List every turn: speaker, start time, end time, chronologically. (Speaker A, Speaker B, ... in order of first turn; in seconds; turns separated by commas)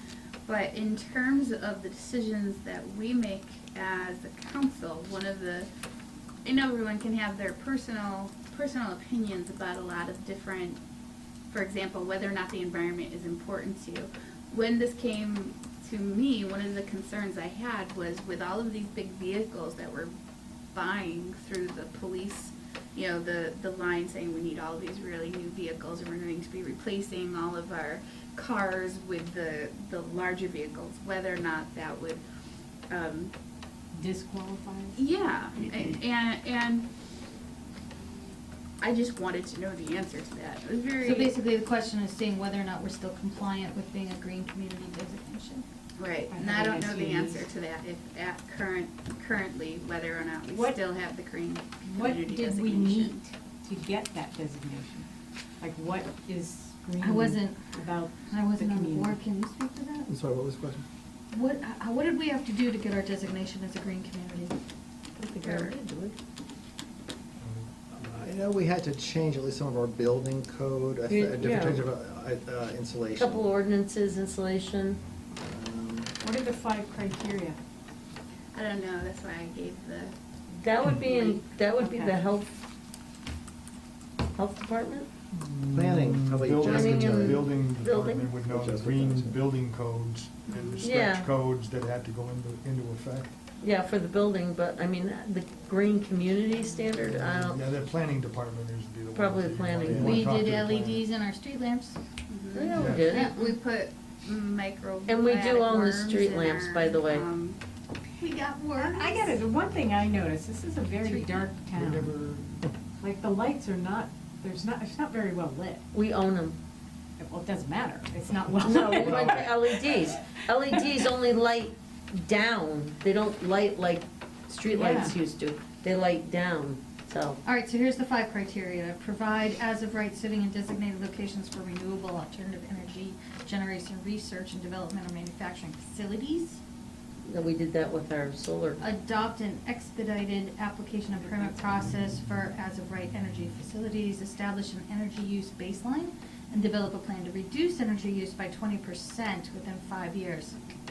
Speaker A: 0.5-5.7, Speaker A: 6.5-10.8, Speaker A: 11.5-20.1, Speaker A: 20.7-32.2, Speaker A: 32.9-33.3, Speaker B: 33.9-35.0, Speaker A: 35.0-36.9, Speaker A: 38.8-41.4, Speaker C: 41.0-45.7, Speaker A: 46.0-53.2, Speaker B: 46.3-47.5, Speaker B: 50.5-50.8, Speaker B: 51.9-55.1, Speaker B: 55.6-59.2, Speaker C: 57.0-57.6, Speaker C: 58.3-60.1, Speaker D: 60.1-60.9, Speaker C: 61.3-64.6, Speaker E: 65.2-66.2, Speaker C: 65.4-65.7, Speaker F: 67.4-68.3, Speaker D: 67.9-73.5, Speaker E: 71.1-71.8, Speaker E: 73.2-75.0, Speaker D: 75.4-76.1, Speaker B: 76.2-77.6, Speaker A: 78.5-80.2, Speaker E: 80.5-82.6, Speaker A: 80.8-81.5, Speaker B: 81.8-82.2, Speaker E: 84.3-85.1, Speaker F: 85.3-93.3, Speaker D: 85.7-87.5, Speaker E: 86.7-88.3, Speaker D: 88.5-89.4, Speaker A: 90.5-90.9, Speaker E: 90.8-91.3, Speaker E: 93.6-97.6, Speaker F: 97.1-101.1, Speaker E: 99.1-100.2, Speaker C: 99.9-102.0, Speaker A: 102.3-107.6, Speaker E: 102.5-103.6, Speaker F: 102.8-103.1, Speaker E: 105.1-107.3, Speaker C: 108.2-109.4, Speaker B: 108.8-112.2, Speaker C: 111.0-111.3, Speaker F: 111.8-112.7, Speaker B: 113.0-115.8, Speaker E: 115.9-116.6, Speaker B: 117.2-119.9, Speaker E: 118.6-127.4, Speaker F: 118.9-119.5, Speaker B: 124.7-125.2, Speaker C: 127.4-136.6, Speaker E: 137.2-138.9, Speaker C: 138.8-150.6